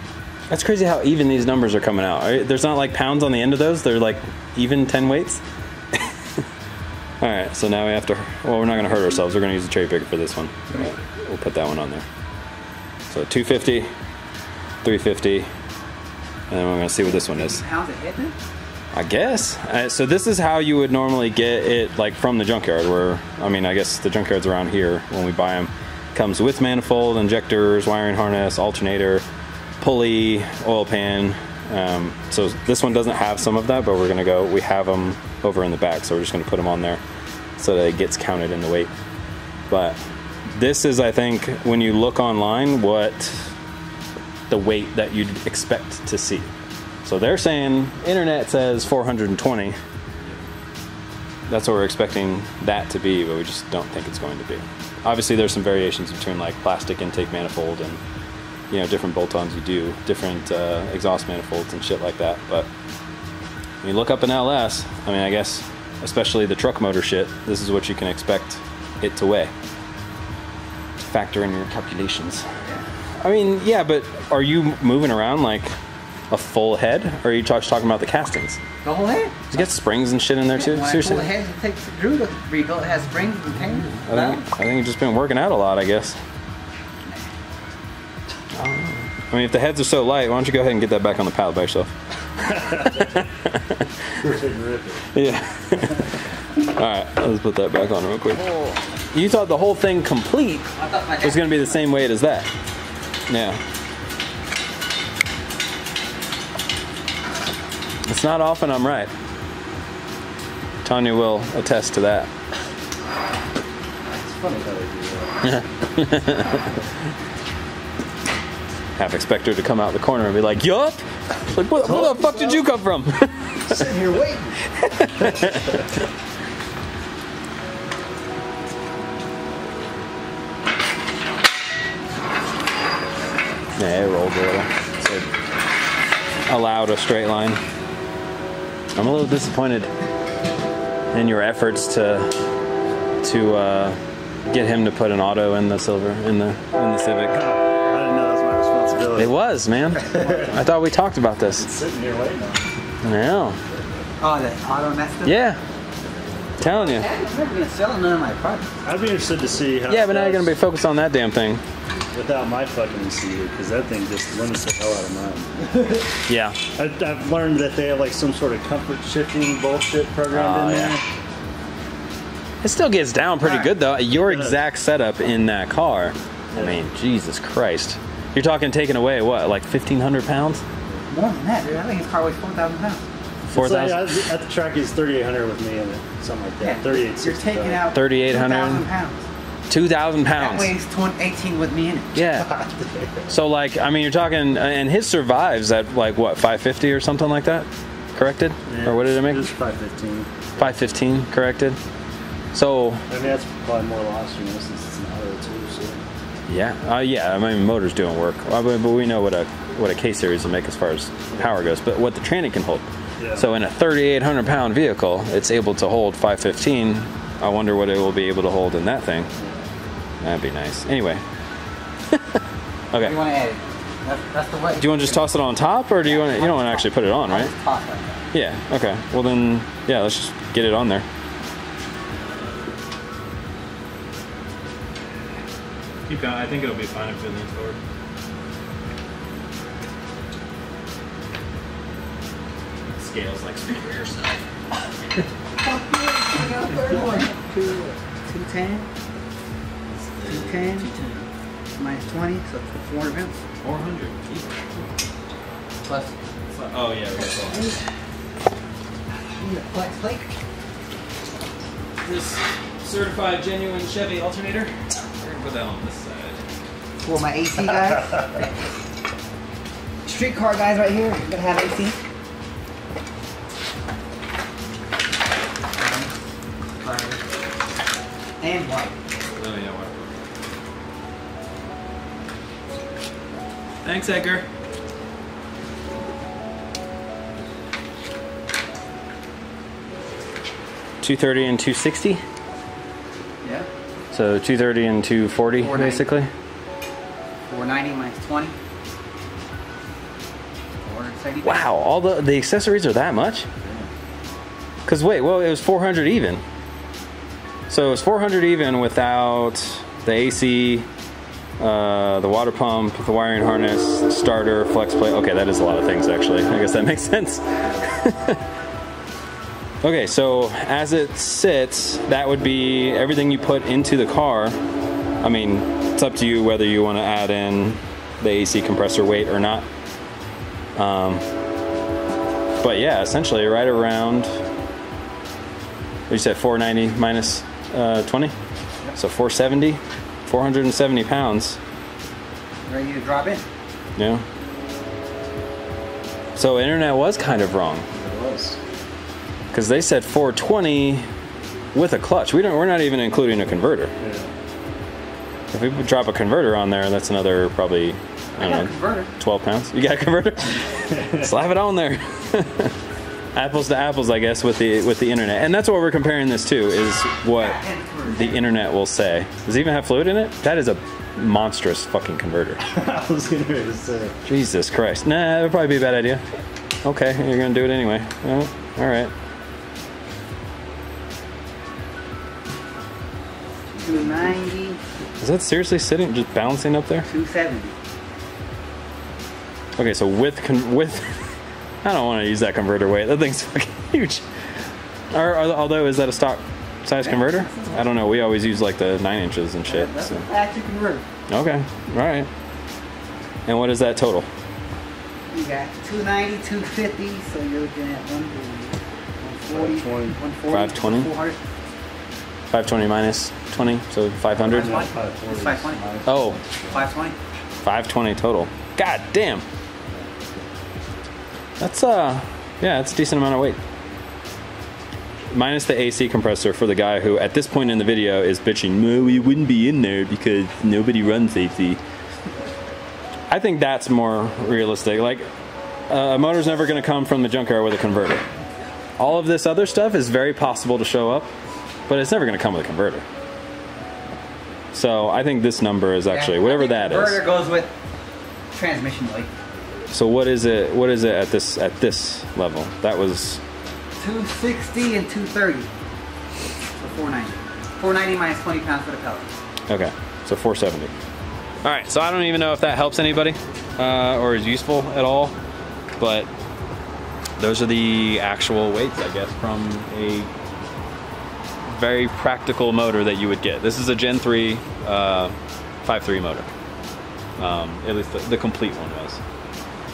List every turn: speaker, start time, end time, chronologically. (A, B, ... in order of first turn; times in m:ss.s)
0:00.5-0:05.4 A
0:05.9-0:06.4 A
0:07.2-0:12.1 A
0:13.1-0:13.9 A
0:14.8-0:15.5 A
0:16.5-0:17.6 A
0:17.1-0:18.4 B
0:18.9-0:29.2 A
0:29.8-0:37.0 A
0:37.6-0:38.9 A
0:39.7-0:43.6 A
0:44.5-0:46.5 A
0:47.0-0:49.8 A
0:51.5-0:58.0 A
0:58.7-1:02.7 A
1:03.8-1:09.5 A
1:11.0-1:12.4 A
1:13.2-1:15.7 A
1:16.3-1:18.6 A
1:18.8-1:19.7 B
1:19.5-1:21.3 A
1:20.5-1:24.4 B
1:23.6-1:26.2 A
1:28.6-1:31.9 A
1:32.4-1:33.2 C
1:32.8-1:34.2 A
1:34.2-1:35.1 C
1:35.1-1:40.7 A
1:40.8-1:41.9 B
1:41.2-1:42.5 A
1:43.3-1:43.6 A
1:48.0-1:49.1 A
1:50.8-1:52.3 A
1:54.1-1:55.5 C
1:55.4-1:56.7 A
1:59.0-2:04.0 A
2:01.8-2:02.6 C
2:03.7-2:04.6 C
2:04.7-2:05.9 A
2:13.8-2:15.3 A
2:16.5-2:17.6 A
2:19.0-2:19.9 A
2:21.1-2:22.4 A
2:23.2-2:27.5 A
2:27.3-2:29.3 C
2:29.1-2:31.7 A
2:30.0-2:30.6 B
2:30.0-2:30.6 C
2:31.6-2:32.7 C
2:33.0-2:33.6 A
2:34.2-2:35.4 B
2:35.2-2:35.6 A
2:36.6-2:37.1 A
2:36.6-2:38.7 B
2:38.8-2:40.5 C
2:39.9-2:41.6 A
2:42.1-2:46.1 C
2:46.3-2:46.6 A
2:46.8-2:51.0 C
2:50.3-2:51.0 A
2:52.6-3:00.6 A
2:53.4-2:54.6 C
2:56.5-2:56.8 C
3:01.1-3:03.0 B
3:03.5-3:04.2 A
3:03.5-3:07.9 C
3:06.6-3:09.3 B
3:07.9-3:08.9 A
3:09.7-3:10.7 A
3:10.4-3:12.2 B
3:12.2-3:12.5 A
3:12.3-3:13.3 C
3:13.3-3:19.5 A
3:18.7-3:20.5 C
3:20.6-3:21.8 A
3:22.5-3:23.0 A
3:23.1-3:26.0 C
3:26.5-3:39.3 A
3:33.2-3:33.5 C
3:39.4-3:39.7 C
3:40.2-3:41.2 A
3:42.1-3:42.4 A
3:42.9-3:43.2 A
3:43.0-3:45.2 B
3:44.8-3:47.5 A
3:46.0-3:48.2 B
3:48.3-3:51.1 A
3:56.1-3:57.8 A
4:03.0-4:04.5 A
4:05.6-4:08.9 B
4:06.7-4:07.4 A
4:09.9-4:11.3 A
4:10.2-4:10.9 B
4:11.8-4:13.4 B
4:13.6-4:14.9 A
4:15.8-4:16.2 B
4:16.5-4:17.8 A
4:17.3-4:17.8 B
4:19.4-4:20.3 B
4:22.0-4:26.4 A
4:27.0-4:28.5 B
4:30.0-4:32.0 B
4:35.8-4:36.2 B
4:36.8-4:37.2 B
4:38.4-4:39.0 B
4:39.3-4:40.2 A
4:43.8-4:44.5 A
4:51.0-4:52.2 A
4:53.4-4:53.7 B
4:54.1-4:56.3 A
4:55.6-4:56.1 B
4:57.5-4:58.6 B
5:00.8-5:01.7 B
5:01.4-5:03.5 A
5:03.6-5:03.9 C
5:04.9-5:06.4 A
5:07.7-5:10.9 A
5:11.6-5:18.4 A
5:19.8-5:24.6 A
5:25.2-5:29.7 A
5:30.8-5:31.2 A
5:32.6-5:34.4 A
5:36.1-5:38.3 A
5:39.0-5:41.6 A
5:42.7-5:43.4 B
5:44.0-5:44.2 A
5:46.4-5:47.9 A
5:47.9-5:48.6 C
5:49.5-5:51.1 A
5:51.7-5:53.9 A
5:54.0-5:54.3 C
5:55.5-6:02.8 A
5:58.4-5:59.1 B
6:00.9-6:01.2 C
6:03.3-6:12.6 A
6:07.4-6:08.4 B
6:12.7-6:14.1 C
6:14.2-6:16.2 A
6:16.8-6:19.1 A
6:23.8-6:24.3 C
6:23.8-6:24.8 B
6:25.2-6:27.1 A
6:27.0-6:27.8 B
6:29.8-6:34.2 A
6:35.1-6:40.3 A
6:37.0-6:37.9 B
6:39.6-6:41.1 B
6:41.3-6:42.3 A
6:43.5-6:44.3 A
6:45.3-6:51.4 B
6:49.5-6:50.2 C
6:50.5-6:51.1 A
6:52.5-6:54.8 A
6:54.4-6:56.9 C
6:54.5-6:55.9 B
6:56.1-6:56.4 A
6:56.7-6:57.2 B
6:57.6-6:59.4 A
7:01.6-7:03.6 A
7:05.3-7:11.8 A
7:13.3-7:15.3 A
7:15.9-7:18.3 A
7:19.0-7:21.3 A
7:21.9-7:23.0 A
7:24.7-7:27.2 A
7:26.1-7:27.7 B
7:28.5-7:29.3 B
7:29.9-7:33.4 A
7:34.0-7:35.7 B
7:36.8-7:39.3 B
7:39.7-7:40.9 A
7:41.6-7:45.4 A
7:46.0-7:46.3 A
7:47.4-7:50.3 A
7:51.7-7:56.5 A
7:57.4-7:59.2 A